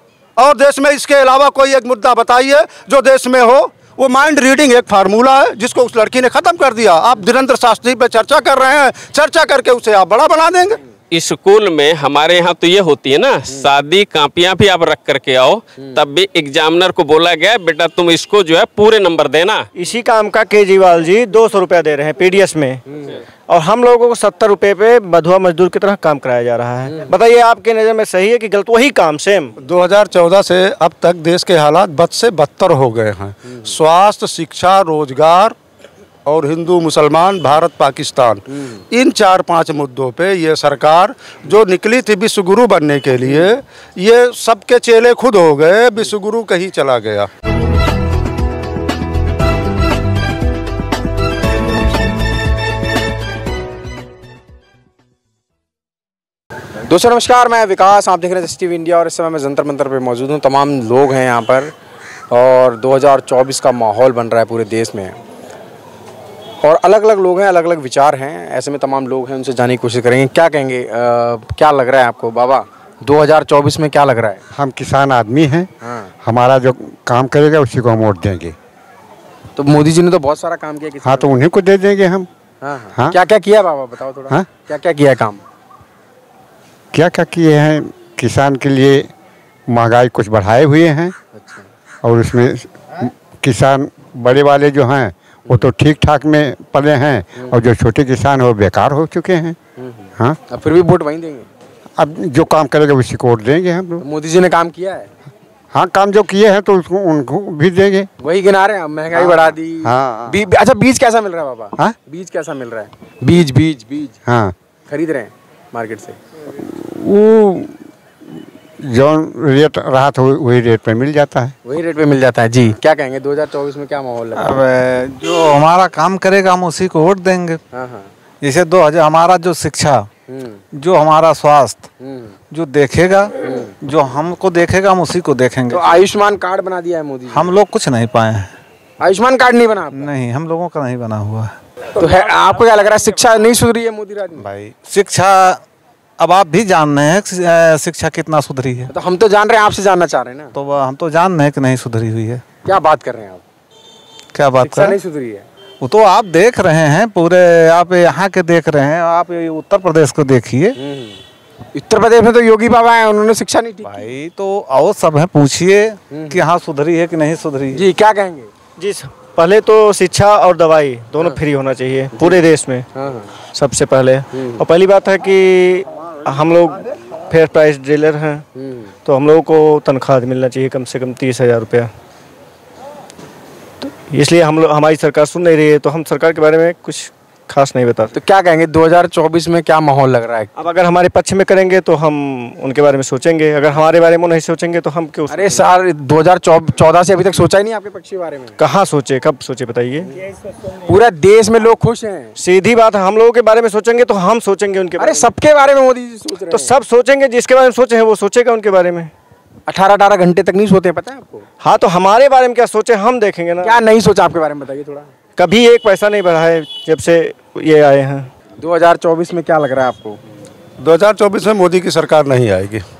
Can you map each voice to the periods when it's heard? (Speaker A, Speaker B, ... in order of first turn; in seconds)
Speaker A: 0.4-10.8, 29.6-35.5, 36.2-47.3, 220.8-222.8
Speaker B: 11.1-19.7
Speaker C: 19.7-22.8, 23.5-29.5, 168.8-172.9, 173.5-178.4, 179.0-181.9, 183.8-188.1, 190.6-195.6, 198.6-200.1, 202.4-205.3, 206.5-209.1, 211.6-213.8, 215.4-218.3
Speaker D: 56.9-61.7, 62.3-65.2, 66.6-74.4, 75.8-76.1, 79.5-81.3, 82.6-85.4, 91.3-91.7, 99.8-101.5, 104.0-105.1, 108.2-114.2, 114.9-116.2, 121.6-124.6, 127.7-128.1, 130.3-130.6, 132.0-132.3, 133.4-133.7, 135.7-137.6, 139.0-140.1, 141.9-144.4, 148.9-150.5, 152.6-153.4, 154.6-155.4, 160.8-161.2, 161.7-164.1, 166.1-166.4, 167.7-168.5, 172.1-172.4, 172.9-173.3, 178.6-178.9, 188.1-190.5, 195.3-198.5, 200.7-202.3, 205.0-206.7, 209.7-211.4, 213.6-215.1, 218.6-220.2
Speaker E: 74.5-75.7, 76.2-78.5, 81.0-82.3, 86.9-89.1, 89.7-91.1, 92.0-99.6, 102.0-104.0, 105.7-108.1, 109.1-110.4, 114.2-114.5, 116.5-117.8, 118.8-121.5
Speaker F: 124.3-127.6, 128.4-130.1, 130.8-131.9, 132.5-136.0, 137.3-138.5, 139.9-141.5, 144.5-145.6, 146.2-148.9, 150.5-152.4, 154.3-154.9, 155.8-160.8, 163.8-167.8